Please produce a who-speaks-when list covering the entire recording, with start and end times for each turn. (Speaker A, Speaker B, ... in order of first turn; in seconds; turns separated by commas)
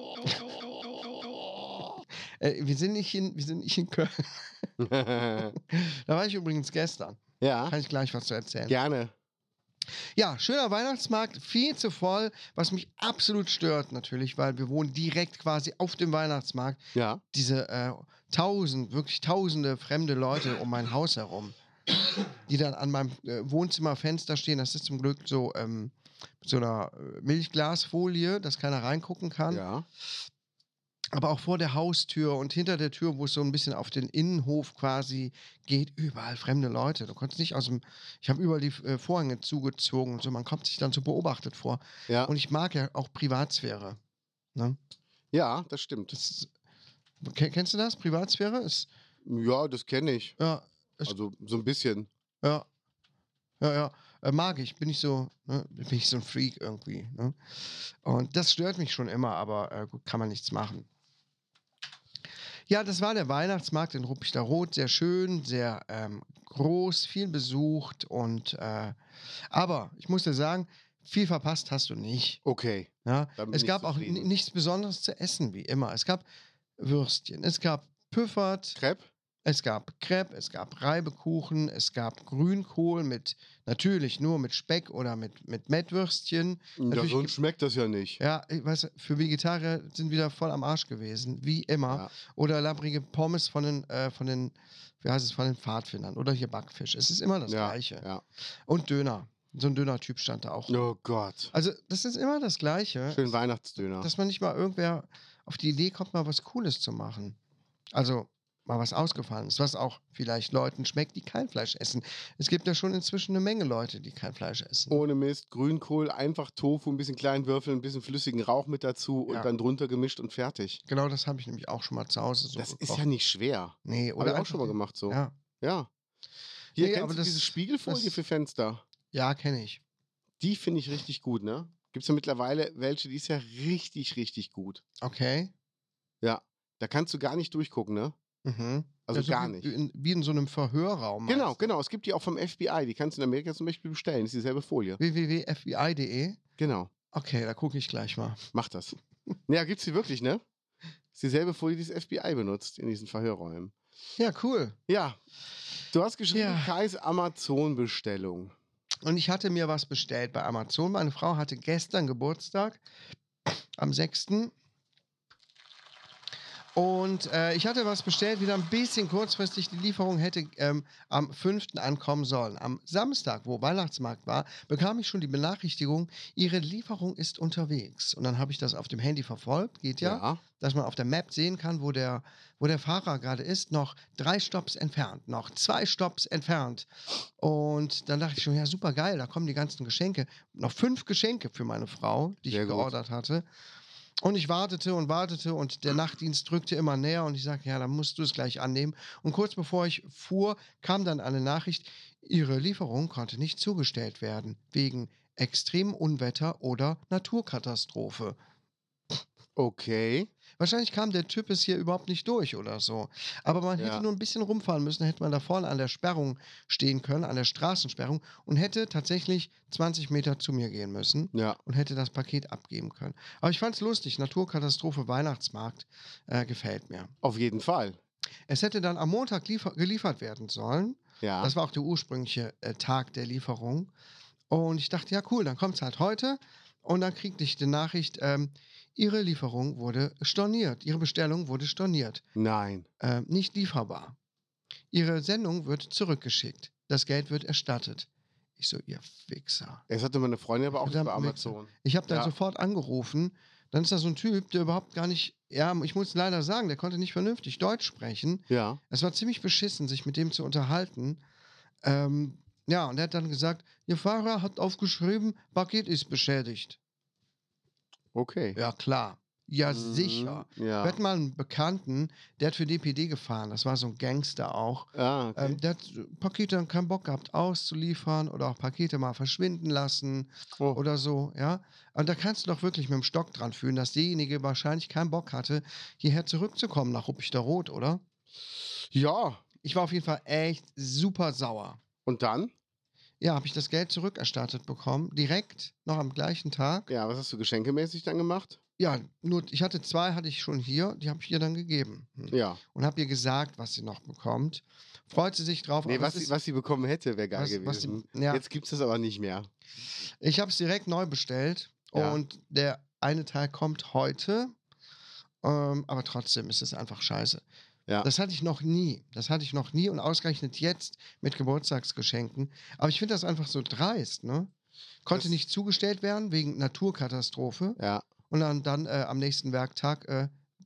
Speaker A: 2.4-4.7, Speaker B: 4.8-5.5, Speaker A: 5.4-8.8, Speaker B: 7.4-7.8, Speaker B: 8.7-9.1, Speaker A: 10.2-16.8, Speaker B: 16.9-17.2, Speaker A: 17.3-21.6, Speaker A: 22.5-29.6, Speaker B: 29.5-29.9, Speaker A: 31.1-44.0, Speaker B: 45.3-46.1, Speaker A: 46.1-46.5, Speaker A: 47.2-48.9, Speaker B: 49.2-50.4, Speaker A: 50.4-51.1, Speaker B: 51.1-52.1, Speaker A: 53.6-57.4, Speaker A: 58.0-60.9, Speaker A: 62.7-69.0, Speaker A: 69.5-72.4, Speaker B: 72.5-74.3, Speaker A: 73.0-76.2, Speaker A: 76.8-78.8, Speaker B: 78.8-79.1, Speaker A: 79.5-87.3, Speaker B: 86.8-88.2, Speaker A: 88.2-98.1, Speaker B: 97.5-98.2, Speaker A: 98.7-100.9, Speaker B: 100.7-101.5, Speaker A: 101.5-103.3, Speaker B: 103.1-104.1, Speaker A: 104.0-107.4, Speaker A: 107.9-115.0, Speaker B: 114.9-120.8, Speaker A: 120.9-123.0, Speaker B: 122.6-125.9, Speaker A: 123.8-125.3, Speaker B: 126.8-128.8, Speaker A: 126.8-128.2, Speaker A: 129.1-129.8, Speaker B: 130.4-134.8, Speaker A: 135.0-135.5, Speaker B: 136.2-138.2, Speaker A: 138.4-141.6, Speaker B: 139.1-139.7, Speaker B: 141.3-145.0, Speaker A: 145.0-146.4, Speaker B: 146.6-146.9, Speaker A: 147.1-148.4, Speaker B: 148.5-149.0, Speaker B: 149.5-150.4, Speaker B: 151.2-153.7, Speaker A: 154.2-154.8, Speaker B: 154.9-155.2, Speaker B: 155.9-158.5, Speaker A: 156.3-156.7, Speaker A: 159.0-162.8, Speaker A: 163.5-164.5, Speaker A: 166.8-186.9, Speaker B: 180.0-180.4, Speaker A: 187.4-193.5, Speaker B: 192.5-192.9, Speaker A: 194.2-208.4, Speaker B: 209.6-210.3, Speaker A: 210.6-227.1, Speaker B: 213.8-214.0, Speaker B: 221.3-221.6, Speaker B: 227.2-228.0, Speaker A: 228.5-233.9, Speaker B: 231.2-231.5, Speaker A: 234.5-242.2, Speaker B: 242.3-242.9, Speaker A: 243.0-244.2, Speaker A: 244.9-249.8, Speaker B: 249.9-252.3, Speaker A: 250.8-261.2, Speaker B: 258.5-258.8, Speaker A: 261.8-266.8, Speaker B: 268.1-268.6, Speaker A: 268.6-288.0, Speaker B: 269.7-271.0, Speaker B: 274.9-275.6, Speaker B: 288.9-289.4, Speaker A: 289.6-291.8, Speaker B: 292.1-292.5, Speaker A: 293.2-296.9, Speaker B: 296.9-298.6, Speaker A: 298.8-306.3, Speaker B: 302.3-302.6, Speaker B: 305.9-309.5, Speaker A: 307.4-308.4, Speaker A: 310.2-314.5, Speaker B: 311.9-312.2, Speaker A: 315.4-317.4, Speaker A: 318.0-324.5, Speaker A: 325.1-330.3, Speaker B: 327.8-328.1